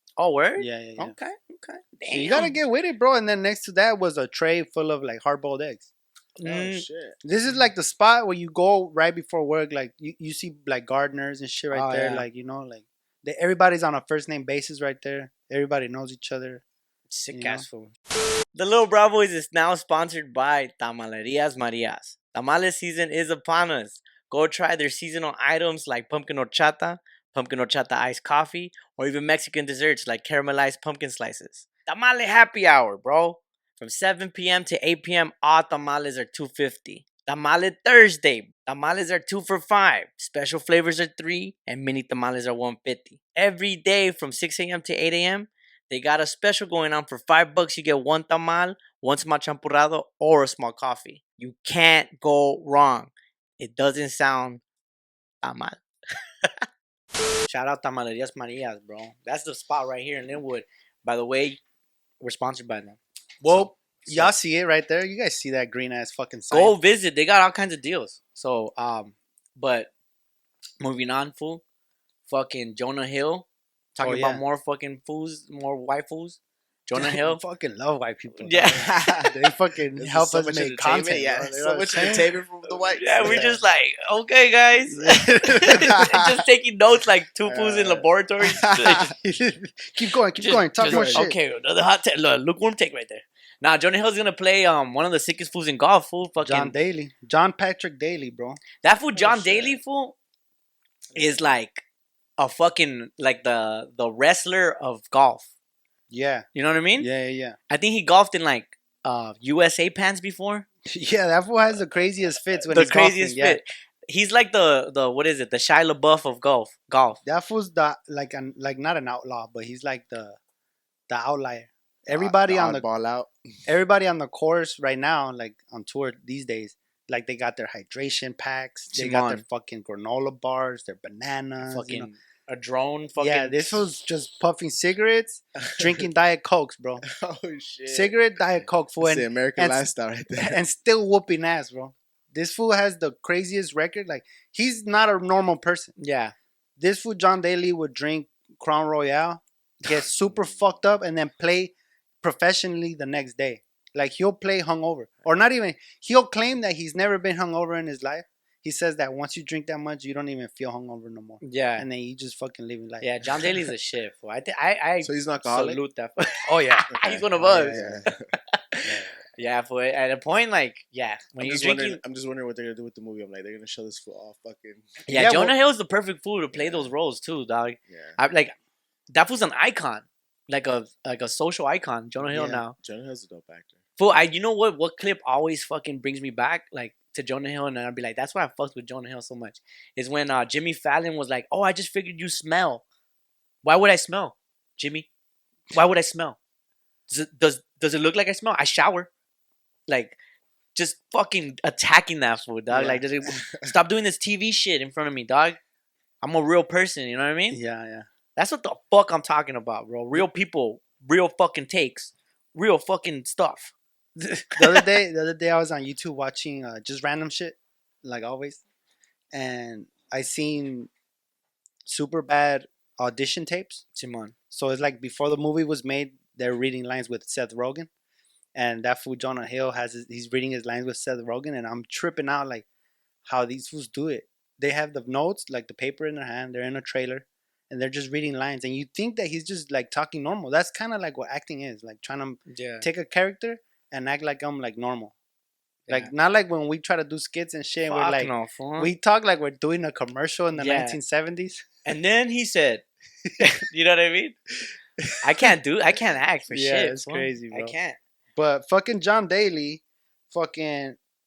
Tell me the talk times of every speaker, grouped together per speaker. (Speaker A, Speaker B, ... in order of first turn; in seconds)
Speaker A: 0.2-2.6, 6.4-6.8, 11.7-12.2, 17.1-17.9, 18.5-54.6, 55.4-55.8, 57.5-61.6, 62.2-64.4, 66.5-69.9, 70.8-71.6, 72.3-77.4, 78.4-79.3, 82.9-89.0, 90.4-96.7, 98.8-100.2, 101.1-101.8, 102.4-105.5, 106.5-107.1, 107.7-110.7, 112.7-117.2, 128.9-129.4, 131.6-133.8, 146.0-146.3, 161.4-161.8, 163.0-172.0, 175.1-178.5, 179.1-182.8, 184.0-192.8, 193.6-195.1, 195.7-196.4, 197.1-199.1, 199.9-200.2, 200.7-205.6, 206.2-207.6, 208.3-214.9, 223.9-224.3, 242.5-242.8, 247.9-248.9, 250.5-251.0, 251.8-252.8, 253.4-254.3, 255.2-258.0
Speaker B: 0.6-1.1, 2.1-5.9, 7.2-16.6, 17.3-17.6, 63.4-66.8, 74.0-74.4, 76.9-82.3, 83.2-83.6, 84.9-85.9, 88.8-91.3, 96.4-98.6, 106.1-106.5, 107.0-107.5, 110.9-113.6, 117.2-120.4, 121.1-122.9, 123.7-132.1, 133.2-137.0, 137.9-139.9, 140.4-145.9, 146.8-163.5, 166.5-168.0, 168.8-169.1, 175.1-175.5, 182.3-182.6, 202.7-203.0, 207.5-208.0, 214.5-218.6, 219.3-220.9, 221.8-223.8, 224.5-227.9, 228.5-232.7, 233.2-245.1, 245.9-251.7, 256.5-257.7, 258.4-261.0
Speaker C: 6.4-7.2, 78.7-79.4, 79.9-83.5, 87.4-89.0, 90.8-91.3, 99.1-99.8, 122.1-123.3, 135.8-136.0, 137.1-140.6, 150.1-150.7, 165.0-165.8, 166.9-168.2, 171.4-175.0, 176.5-176.9, 177.9-178.2, 182.8-183.8, 203.3-203.7